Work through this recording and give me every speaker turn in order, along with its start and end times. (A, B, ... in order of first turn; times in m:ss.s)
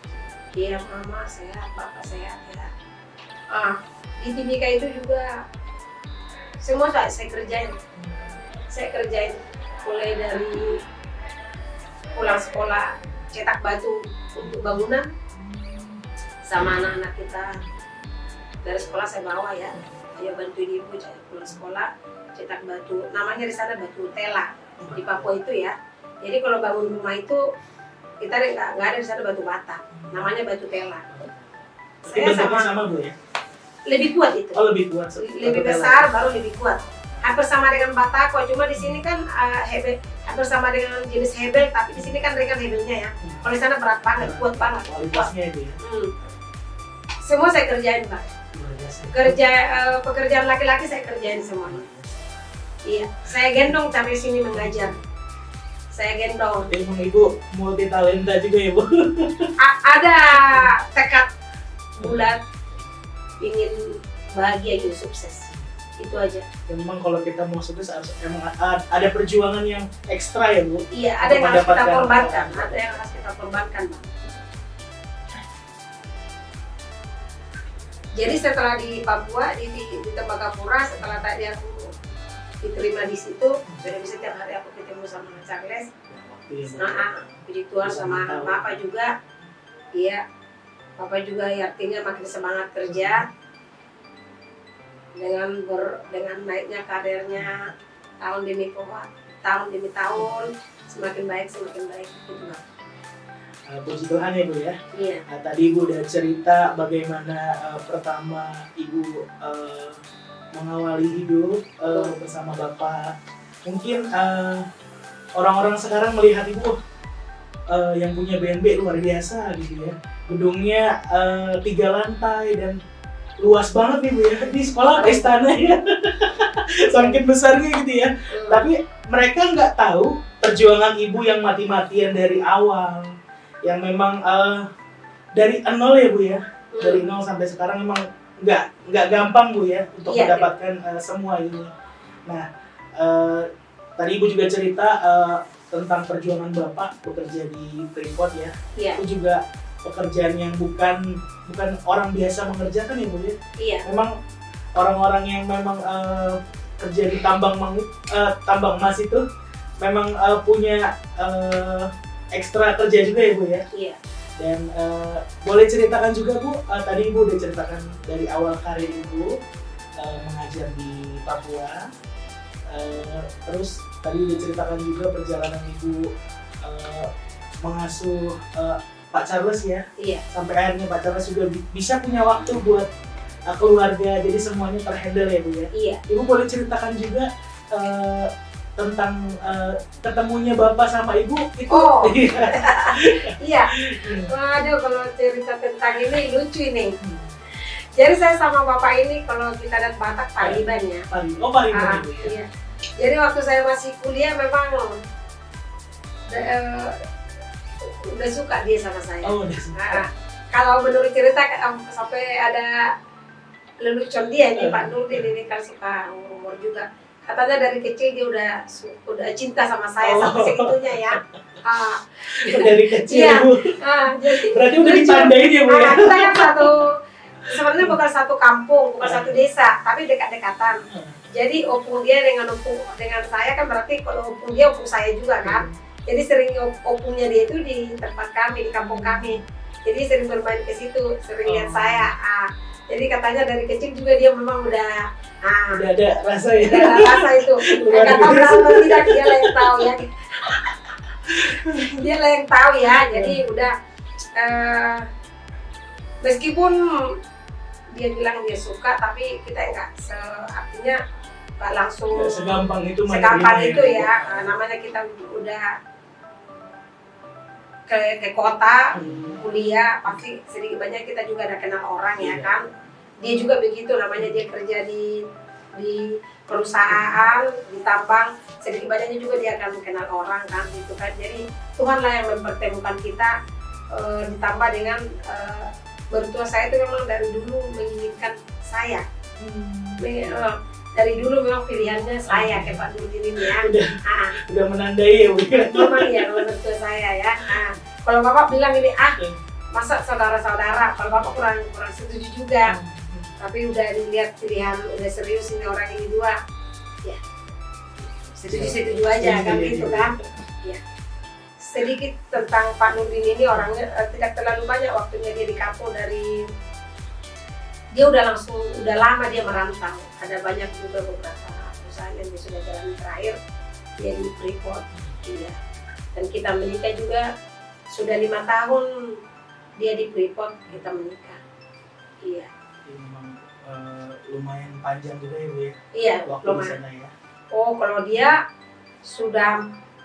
0:00.5-0:02.7 A
0:03.5-0:05.4 A
0:06.6-0:07.8 A
0:08.0-0:08.3 B
0:08.7-0:10.8 A
0:12.1-0:15.1 A
0:14.4-0:14.8 B
0:15.3-0:16.0 B
0:16.4-0:17.6 A
0:17.5-0:17.8 B
0:18.6-0:27.4 A
0:24.8-0:25.3 B
0:28.2-0:31.1 A
0:29.9-0:30.3 B
0:31.1-0:31.5 B
0:32.0-0:32.8 A
0:32.0-0:33.1 B
0:33.8-0:34.6 A
0:34.5-0:36.1 B
0:35.2-0:45.3 A
0:43.2-0:43.5 B
0:44.1-0:45.8 B
0:45.8-0:46.1 A
0:47.2-0:48.3 A
0:48.5-0:49.4 B
0:49.1-0:51.8 A
0:51.6-0:52.2 B
0:52.8-0:54.9 A
0:54.5-0:54.9 B
0:55.9-0:56.7 A
0:56.6-0:59.5 B
0:59.6-1:01.3 A
1:00.3-1:00.7 B
1:02.0-1:02.4 B
1:02.0-1:02.4 A
1:03.4-1:05.5 A
1:05.5-1:05.8 B
1:06.0-1:06.5 A
1:06.7-1:13.3 B
1:10.9-1:14.2 A
1:18.2-1:21.9 A
1:22.6-1:25.9 A
1:26.1-1:28.8 B
1:26.7-1:29.1 A
1:29.9-1:30.2 A
1:31.0-1:33.2 A
1:32.8-1:33.3 B
1:35.2-1:42.6 A
1:37.4-1:37.7 B
1:43.7-1:44.8 B
1:44.9-1:45.2 A
1:45.3-1:50.0 B
1:50.5-1:53.1 B
1:53.6-1:54.6 B
1:55.4-1:56.8 B
1:57.7-2:02.8 B
2:03.4-2:13.1 B
2:04.9-2:05.3 A
2:06.9-2:07.2 A
2:08.3-2:08.7 A
2:13.6-2:14.7 B
2:15.4-2:21.7 B
2:16.7-2:17.0 A
2:20.1-2:20.5 A
2:23.0-2:34.1 B
2:33.6-2:33.8 A
2:34.8-2:39.2 B
2:39.8-2:43.6 B
2:43.7-2:44.0 A
2:44.4-2:49.3 B
2:50.0-2:51.8 B
2:52.7-2:56.1 B
2:56.6-2:57.1 B
2:57.6-3:02.9 B
3:00.0-3:00.2 A
3:03.5-3:14.3 B
3:05.7-3:06.0 A
3:11.7-3:17.0 A
3:17.0-3:17.4 B
3:17.5-3:21.1 A
3:20.4-3:22.3 B
3:21.7-3:25.0 A
3:26.3-3:27.0 A
3:27.8-3:32.9 A
3:29.2-3:30.1 B
3:33.8-3:50.8 A
3:34.6-3:35.3 B
3:40.0-3:41.6 B
3:42.3-3:46.7 B
3:47.4-3:48.0 B
3:49.0-3:49.4 B
3:50.9-3:51.2 B
3:51.3-4:05.9 A
3:55.4-3:55.8 B
3:58.8-3:59.4 B
4:01.4-4:02.1 B
4:05.7-4:12.0 B
4:06.6-4:10.5 A
4:11.6-4:13.7 A
4:13.1-4:13.4 B
4:14.3-4:15.1 A
4:16.2-4:17.2 A
4:17.9-4:21.0 A
4:21.6-4:25.8 A
4:22.1-4:24.5 B
4:27.9-4:32.6 A
4:28.9-4:29.5 B
4:32.2-4:32.6 B
4:33.2-4:35.2 A
4:35.7-4:43.3 A
4:36.8-4:37.2 B
4:43.9-4:49.0 A
4:49.4-4:50.5 B
4:50.0-4:54.4 A
4:52.3-4:56.5 B
4:55.5-4:59.2 A
4:57.4-4:57.8 B
4:59.7-5:02.7 A
5:02.6-5:03.3 B
5:03.4-5:06.4 A
5:07.0-5:07.4 A
5:08.0-5:10.4 B
5:08.4-5:10.8 A
5:11.6-5:16.4 A
5:17.9-5:23.4 A
5:24.0-5:25.6 A
5:24.9-5:25.2 B
5:26.1-5:27.3 A
5:27.9-5:29.2 A
5:29.8-5:31.4 A
5:32.2-5:32.5 A
5:32.8-5:37.1 B
5:35.9-5:36.8 A
5:37.5-5:38.4 A
5:39.0-5:39.6 A